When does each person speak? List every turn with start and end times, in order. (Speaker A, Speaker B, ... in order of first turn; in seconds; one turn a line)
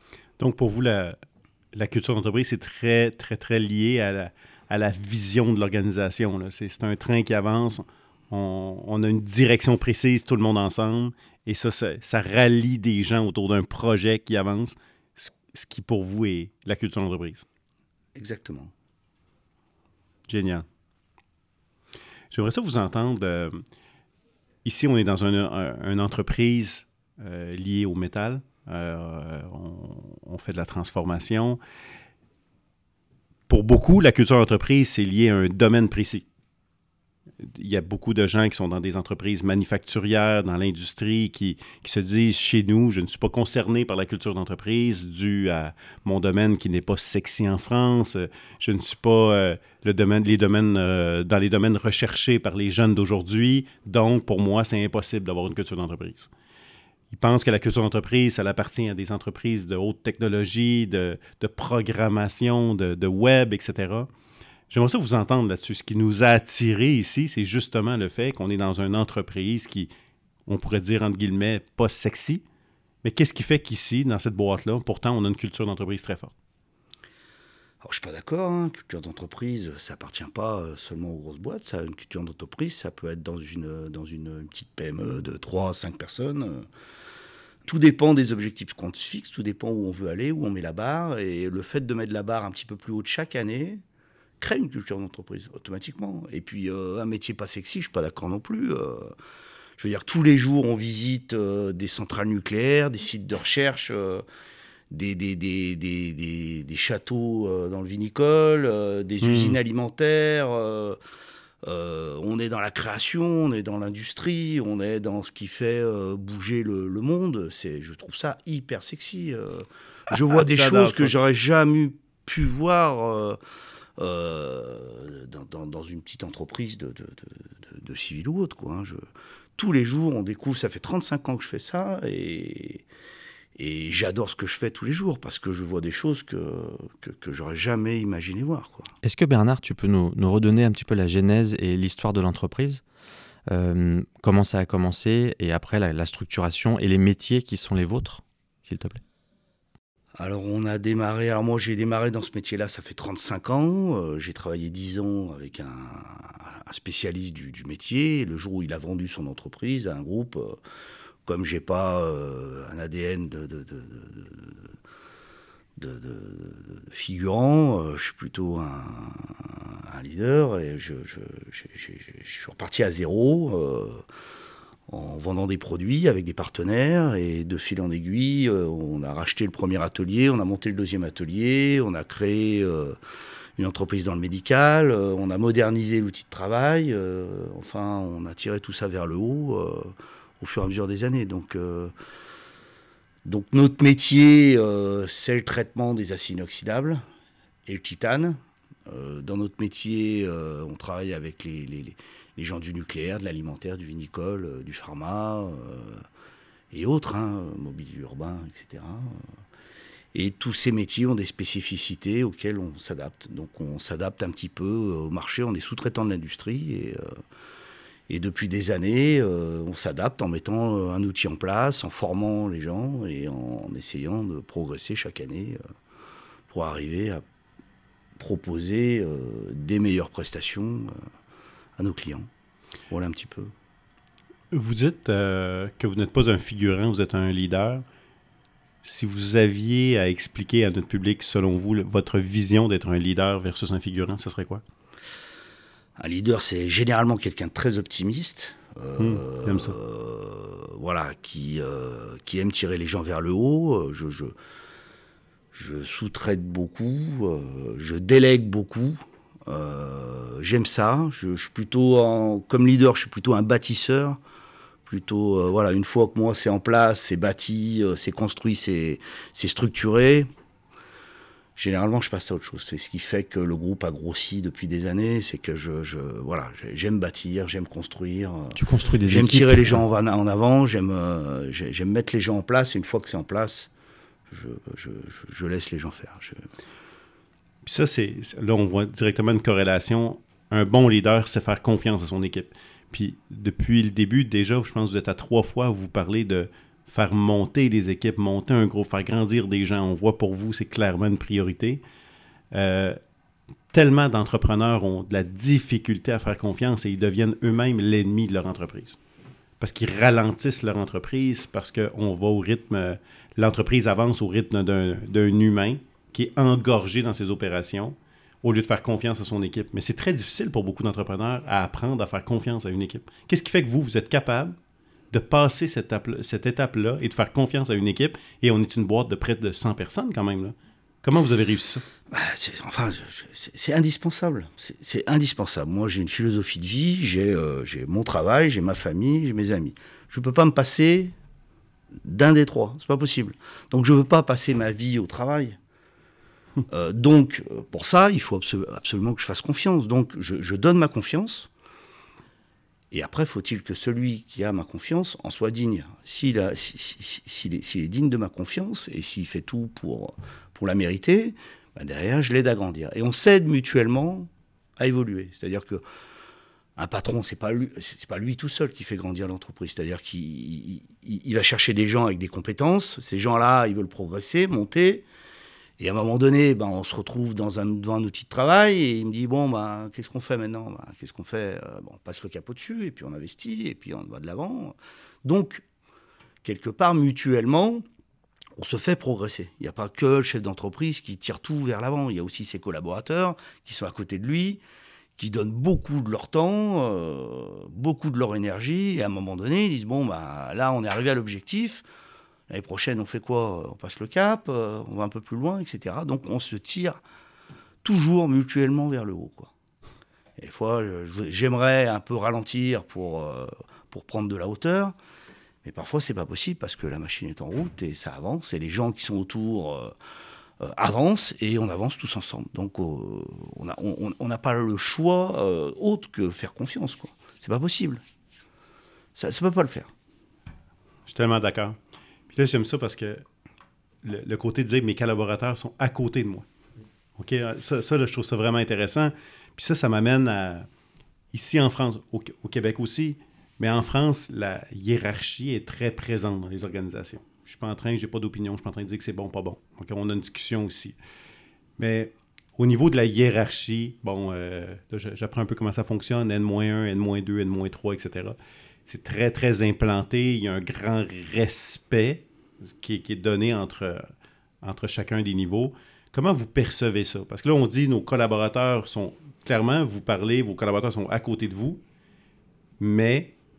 Speaker A: 0.4-1.2
Speaker A: 1.7-17.4
Speaker B: 18.1-18.7
Speaker A: 20.3-20.7
Speaker A: 22.3-23.6
Speaker A: 24.6-31.6
Speaker A: 33.5-36.2
Speaker A: 37.4-56.3
Speaker A: 57.1-64.1
Speaker A: 64.7-69.9
Speaker A: 70.5-72.4
Speaker A: 73.0-76.3
Speaker B: 77.8-86.7
Speaker B: 87.7-93.8
Speaker B: 94.4-99.2
Speaker B: 99.8-104.2
Speaker B: 104.9-111.0
Speaker A: 109.2-109.6
Speaker B: 111.6-123.4
Speaker A: 120.3-121.1
Speaker B: 124.0-129.0
Speaker B: 129.6-132.8
Speaker B: 133.6-138.9
Speaker C: 139.0-142.8
Speaker C: 143.5-149.0
Speaker B: 150.2-160.6
Speaker B: 161.3-164.7
Speaker B: 165.8-174.0
Speaker B: 174.9-183.0
Speaker B: 183.6-191.9
Speaker B: 193.3-197.0
Speaker B: 197.7-206.0
Speaker B: 206.7-209.2
Speaker B: 210.1-217.2
Speaker B: 218.1-225.6
Speaker B: 226.5-227.2
Speaker B: 228.2-231.0
Speaker B: 231.8-232.3
Speaker B: 232.9-233.5
Speaker A: 234.5-237.8
Speaker A: 238.8-244.6
Speaker B: 246.0-254.3
Speaker A: 249.0-249.8
Speaker B: 255.5-264.2
Speaker B: 264.9-270.3
Speaker B: 271.6-283.7
Speaker C: 278.6-279.8
Speaker B: 284.3-286.5
Speaker A: 287.6-301.8
Speaker A: 302.5-303.0
Speaker A: 303.7-309.0
Speaker A: 309.6-324.6
Speaker A: 325.1-331.8
Speaker B: 332.1-341.1
Speaker B: 342.0-345.6
Speaker B: 346.7-351.5
Speaker B: 352.9-365.8
Speaker B: 366.8-375.1
Speaker B: 375.8-385.6
Speaker B: 386.4-387.8
Speaker B: 388.6-394.6
Speaker B: 395.2-401.8
Speaker B: 402.5-407.0
Speaker B: 407.8-409.5
Speaker B: 410.4-414.9
Speaker B: 415.6-419.9
Speaker B: 420.6-428.0
Speaker B: 429.2-429.9
Speaker A: 431.1-431.8
Speaker A: 432.3-433.2
Speaker A: 434.0-436.5
Speaker A: 437.2-440.7
Speaker A: 441.3-451.0
Speaker A: 451.8-462.2
Speaker A: 462.8-464.1
Speaker A: 464.6-471.8
Speaker A: 472.8-473.3